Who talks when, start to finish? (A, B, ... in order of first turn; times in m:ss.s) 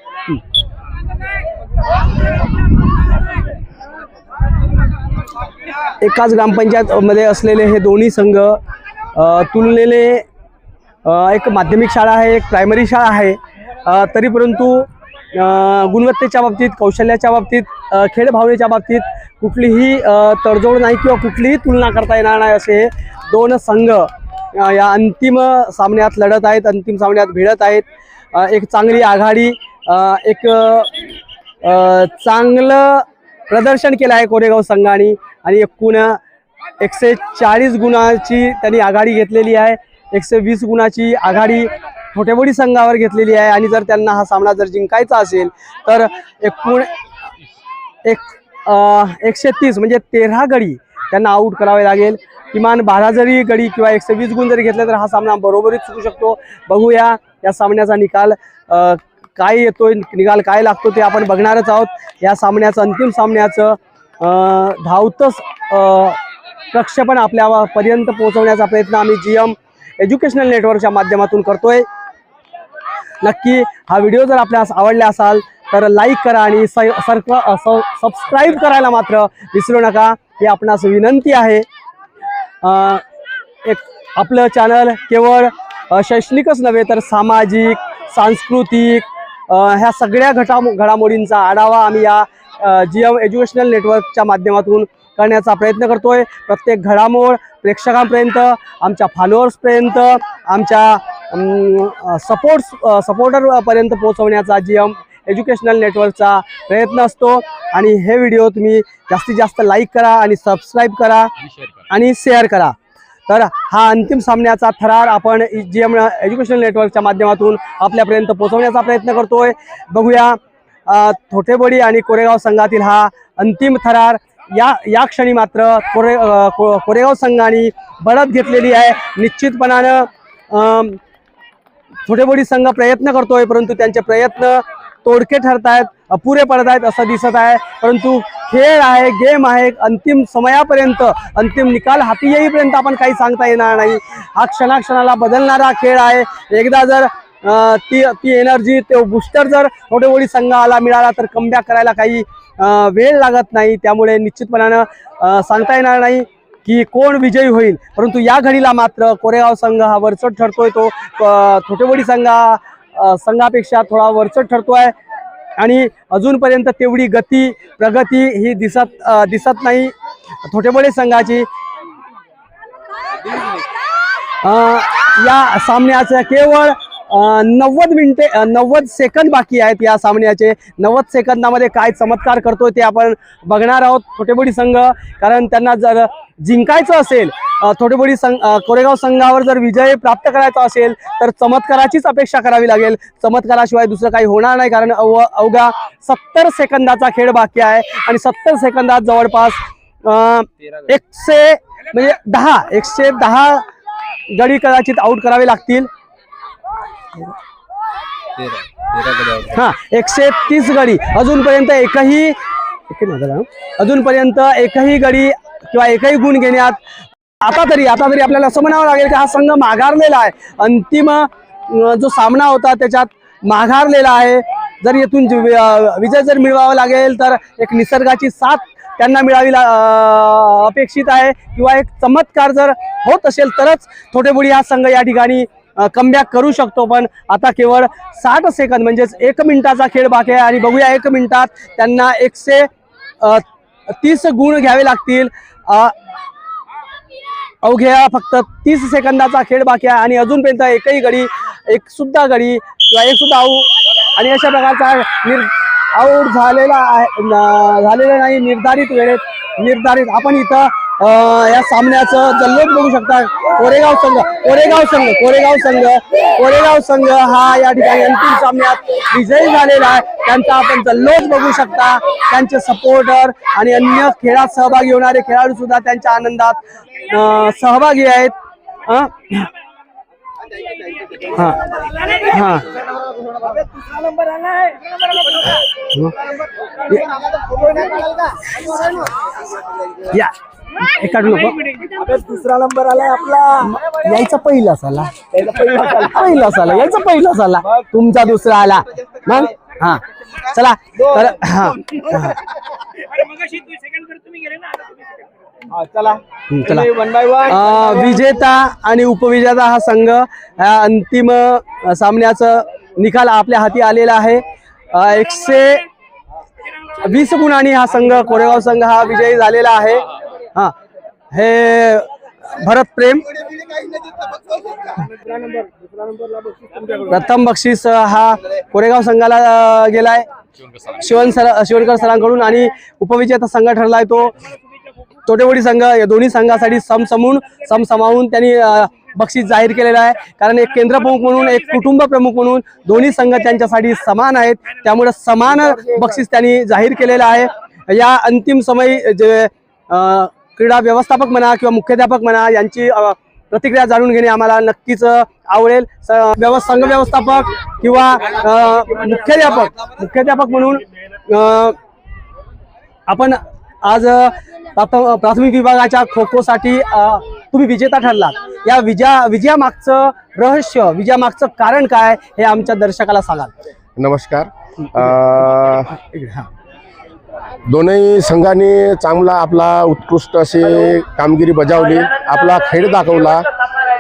0:06.0-0:08.6 A
0:09.2-0:10.3 A
0:11.0-0:30.9 A
0:31.6-0:36.2 A
0:36.8-0:46.9 A
0:48.0-1:06.2 A
1:06.7-1:11.9 A
1:13.2-1:21.7 A
1:22.6-1:23.0 A
1:23.6-1:51.3 A
1:51.9-1:52.8 A
1:53.3-2:11.0 A
2:12.1-2:44.9 A
2:45.6-2:49.9 A
2:50.4-2:51.5 A
2:54.4-3:23.6 A
3:24.3-3:25.9 A
3:28.4-3:29.6 B
3:29.5-3:32.4 A
3:32.9-3:36.8 A
3:37.4-4:02.7 A
4:03.2-4:05.9 A
4:07.6-4:38.4 A
4:38.9-4:39.5 A
4:40.6-4:42.3 B
4:41.4-4:41.7 A
4:42.2-4:42.7 A
4:43.4-4:43.6 C
4:43.8-4:45.5 B
4:46.9-4:48.5 C
4:50.1-4:51.6 A
4:51.4-4:52.0 B
4:52.0-4:53.6 C
4:53.6-5:02.4 A
4:55.4-4:56.2 C
5:03.0-5:05.2 B
5:05.8-5:08.0 C
5:06.5-5:15.8 A
5:17.0-5:20.7 A
5:21.3-5:23.3 A
5:27.1-5:30.3 A
5:31.0-5:34.3 A
5:35.3-6:01.8 A
6:03.1-6:13.5 A
6:14.0-6:15.9 D
6:15.9-6:16.5 A
6:17.7-6:23.5 D